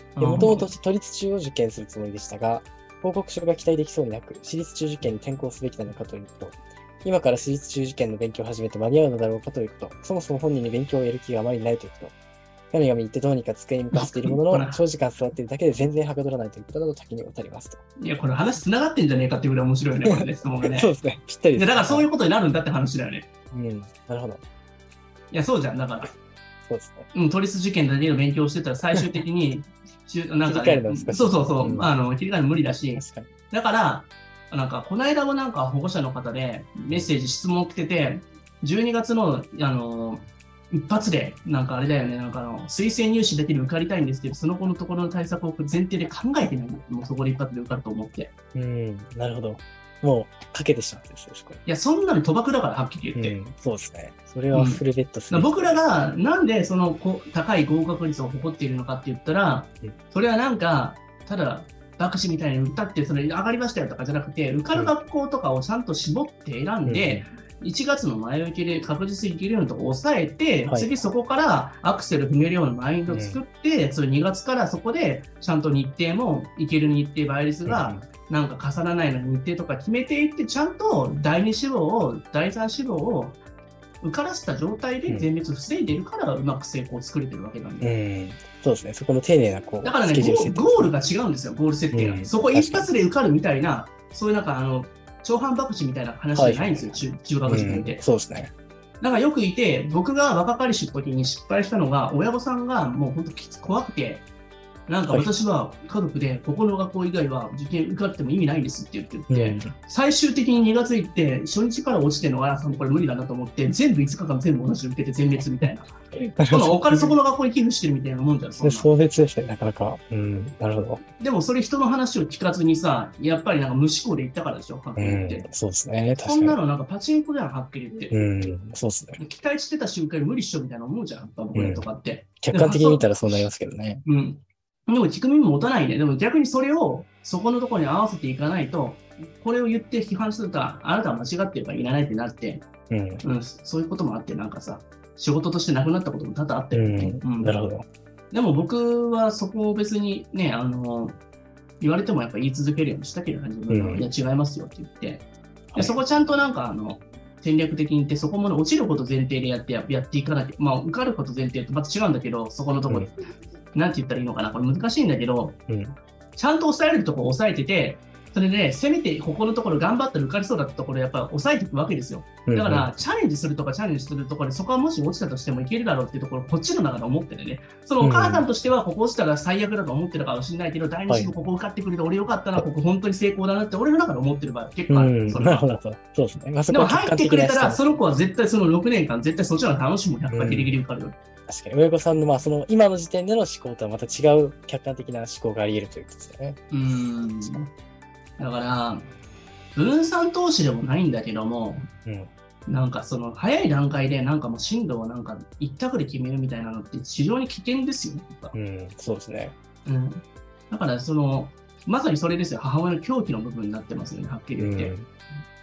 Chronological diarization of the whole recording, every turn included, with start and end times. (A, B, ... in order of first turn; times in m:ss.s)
0:00.2-0:00.7 A
0:00.2-0:12.2 B
0:12.7-0:17.8 B
0:13.9-0:14.8 A
0:18.0-0:20.9 A
0:20.1-0:22.1 B
0:21.6-0:23.3 A
0:23.5-0:24.4 B
0:25.3-0:26.1 A
0:26.7-0:27.1 B
0:27.1-0:48.3 A
0:30.4-0:31.9 B
0:33.0-0:33.3 B
0:48.5-0:51.6 B
0:51.6-0:53.4 A
0:53.2-0:55.5 B
0:54.5-1:23.4 A
1:06.8-1:07.3 B
1:10.7-1:10.9 B
1:13.1-1:13.4 B
1:17.7-1:18.1 B
1:24.0-1:27.9 A
1:27.8-1:30.9 B
1:29.8-1:38.0 A
1:31.9-1:32.9 B
1:36.3-1:38.5 B
1:39.0-1:44.3 A
1:44.9-1:56.0 A
1:49.3-1:49.7 B
1:56.2-1:57.1 B
1:56.5-1:58.9 A
1:58.6-2:01.0 B
2:01.2-2:05.5 A
2:05.0-2:06.6 B
2:06.2-2:08.2 A
2:08.1-2:09.2 B
2:09.2-2:13.5 A
2:11.5-2:11.9 B
2:12.4-2:14.0 B
2:14.0-2:22.7 A
2:22.9-2:23.2 B
2:23.2-2:27.6 A
2:26.7-2:27.9 B
2:28.3-2:31.2 A
2:31.8-2:43.1 A
2:33.7-2:34.1 B
2:35.7-2:36.0 B
2:43.7-2:45.6 A
2:45.7-2:46.0 B
2:46.4-3:05.7 A
2:52.5-2:53.0 B
2:58.0-2:58.5 B
3:01.1-3:01.4 B
3:04.9-3:08.0 B
3:06.7-3:11.2 A
3:10.3-3:10.8 B
3:11.5-3:16.6 B
3:16.7-3:17.7 A
3:18.4-3:19.1 A
3:19.8-3:21.9 A
3:22.0-3:22.3 B
3:22.7-3:28.5 A
3:28.5-3:29.6 B
3:29.8-3:34.9 A
3:34.6-3:35.1 B